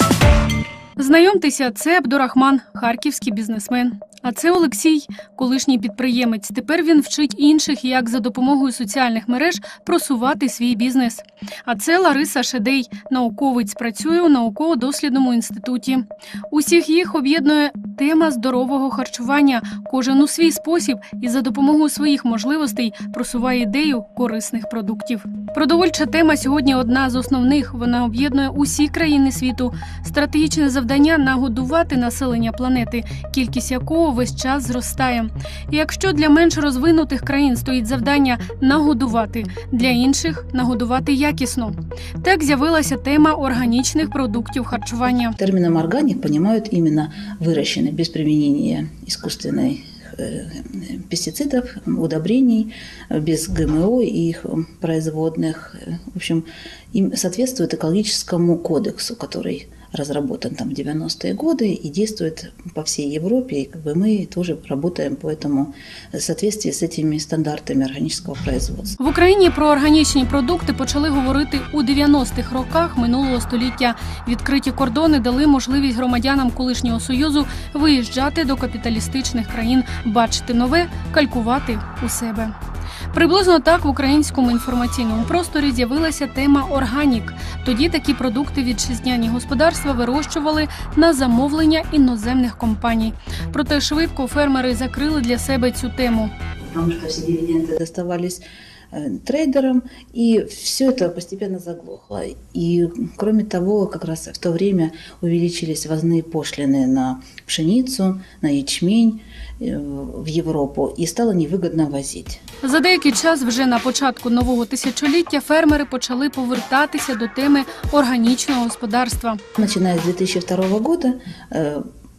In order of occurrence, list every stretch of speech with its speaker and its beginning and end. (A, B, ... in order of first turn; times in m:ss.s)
0:01.0-0:45.4 A
0:45.4-1:09.0 B
1:09.0-1:22.5 A
1:23.1-1:36.3 A
1:36.7-1:52.4 B
1:52.6-1:59.4 A
1:59.6-2:01.8 B